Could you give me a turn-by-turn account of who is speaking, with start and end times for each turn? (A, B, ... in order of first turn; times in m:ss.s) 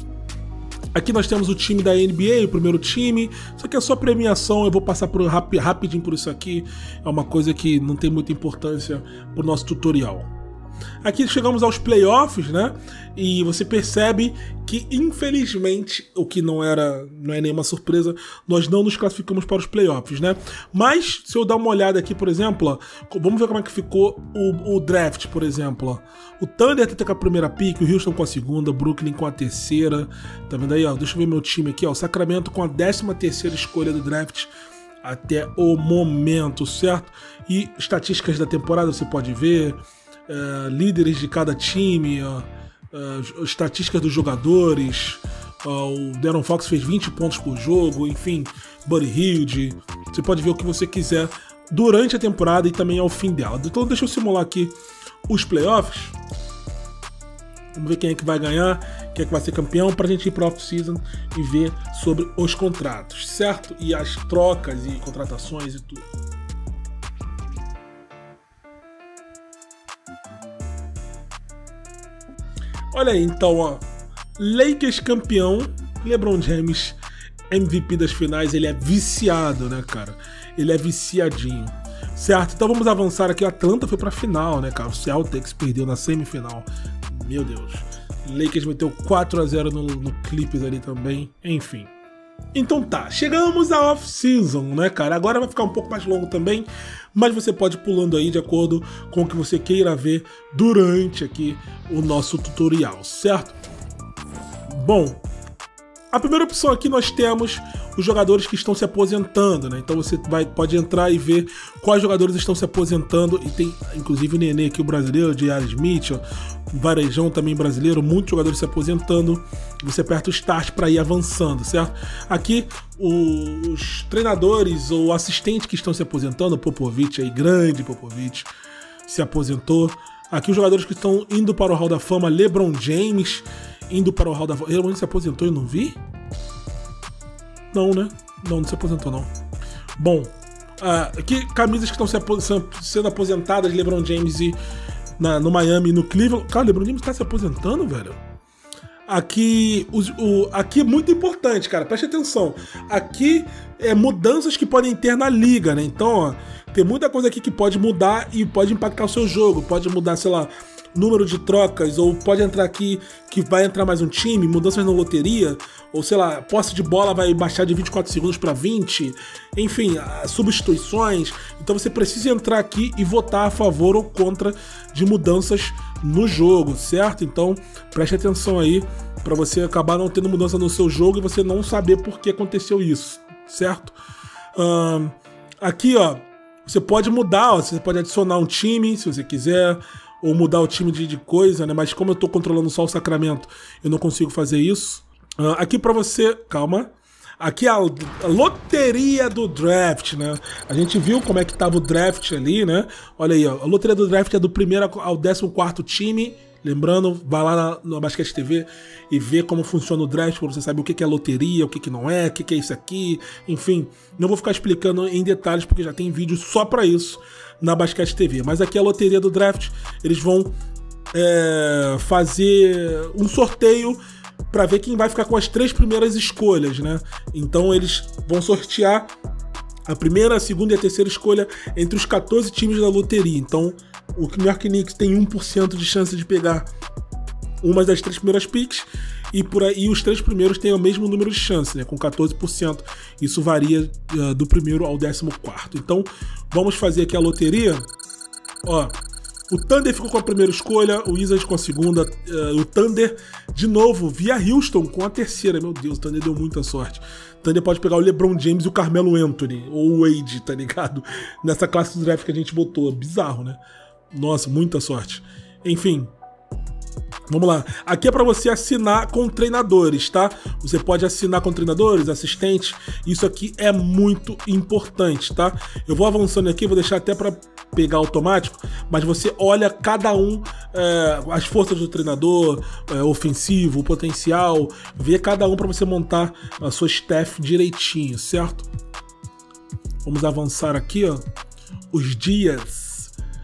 0:00.9-0:10.3 A
0:11.0-0:34.5 A
0:35.0-0:54.7 A
0:55.3-0:56.2 A
0:57.7-1:06.0 A
1:12.9-1:13.8 A
1:14.4-1:17.0 A
1:17.5-1:31.9 A
1:32.5-1:43.6 A
1:44.7-1:45.2 A
1:46.1-2:08.5 A
2:09.0-2:16.0 A
2:17.7-2:19.3 A
2:20.0-2:24.6 A
2:25.2-2:28.2 A
2:29.1-3:04.0 A
3:04.6-3:40.5 A
3:41.1-3:49.1 A
3:49.9-3:56.7 A
3:57.6-4:07.9 A
4:08.6-4:08.9 A
4:09.5-4:26.1 A
4:27.3-4:48.7 A
4:50.0-4:51.2 A
4:51.9-4:53.1 A